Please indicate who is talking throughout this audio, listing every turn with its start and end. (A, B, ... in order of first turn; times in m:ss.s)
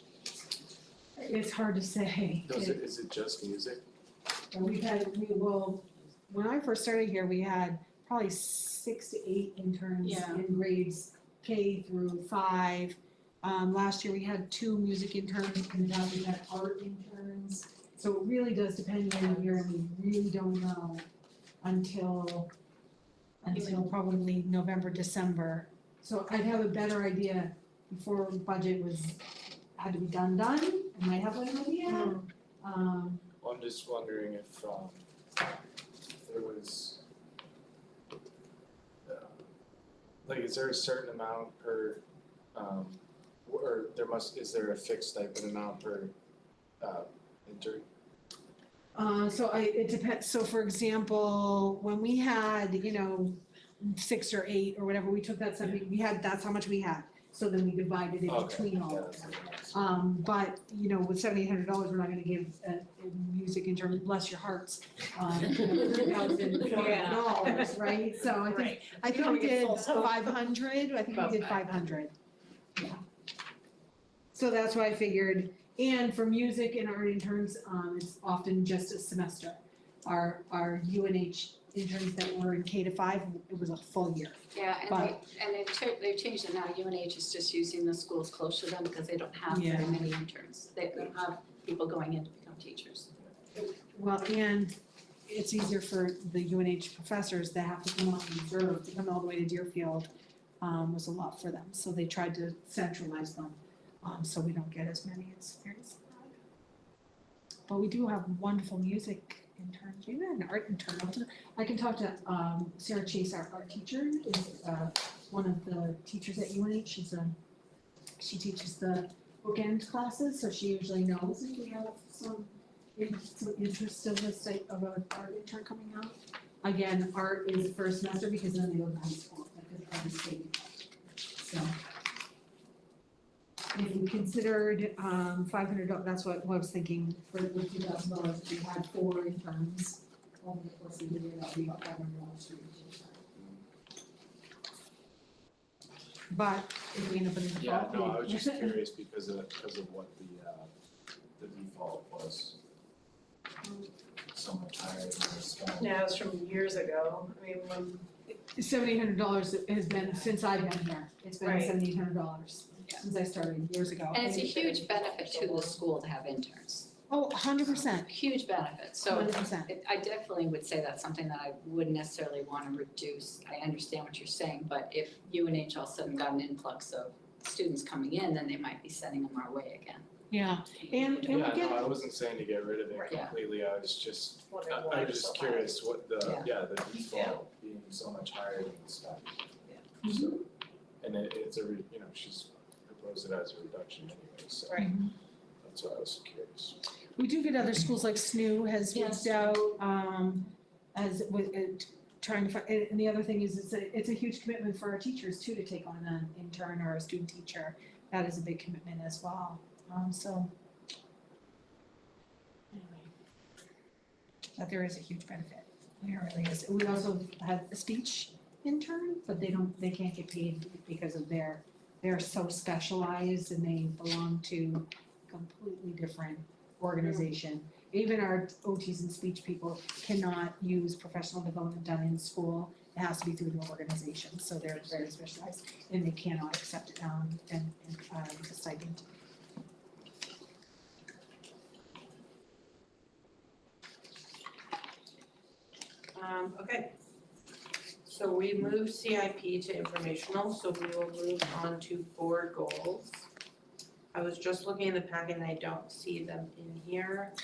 0:01.1-0:02.8 A
0:02.4-0:03.8 B
0:04.5-0:21.1 A
0:10.0-0:10.4 C
0:21.6-0:22.5 A
0:23.4-0:33.3 A
0:23.6-0:23.8 C
0:31.9-0:32.2 C
0:33.4-0:35.0 B
0:36.2-0:37.0 B
0:39.0-0:39.4 B
0:40.2-0:46.1 B
0:46.8-0:47.8 B
0:48.9-1:12.1 A
0:58.3-1:00.0 B
1:06.6-1:10.2 C
1:06.7-1:07.5 D
1:11.2-1:11.6 D
1:14.3-1:25.2 A
1:24.5-1:33.1 D
1:29.5-1:30.0 A
1:33.5-1:40.1 A
1:40.6-1:46.3 A
1:47.7-1:57.4 A
1:58.2-2:10.8 A
2:11.3-2:11.7 A
2:13.7-2:23.2 A
2:26.3-2:28.8 A
2:27.6-2:30.7 B
2:31.4-2:32.6 B
2:34.3-2:36.1 B
2:35.8-2:38.1 C
2:38.3-2:44.7 A
2:41.4-2:41.7 C
2:44.1-2:46.9 D
2:44.6-2:45.8 C
2:47.1-2:48.1 A
2:47.8-3:00.1 D
2:49.0-2:49.7 A
3:00.3-3:02.0 A
3:00.7-3:01.5 D
3:01.3-3:09.4 B
3:03.0-3:03.3 D
3:04.5-3:05.8 C
3:06.2-3:06.5 D
3:10.0-3:10.4 A
3:11.0-3:14.9 B
3:14.8-3:15.1 A
3:15.6-3:16.8 B
3:17.2-3:30.5 A
3:18.9-3:19.4 C
3:32.7-3:33.1 A
3:34.6-3:59.0 A
4:06.1-4:06.9 C
4:08.0-4:13.2 C
4:14.1-4:17.3 C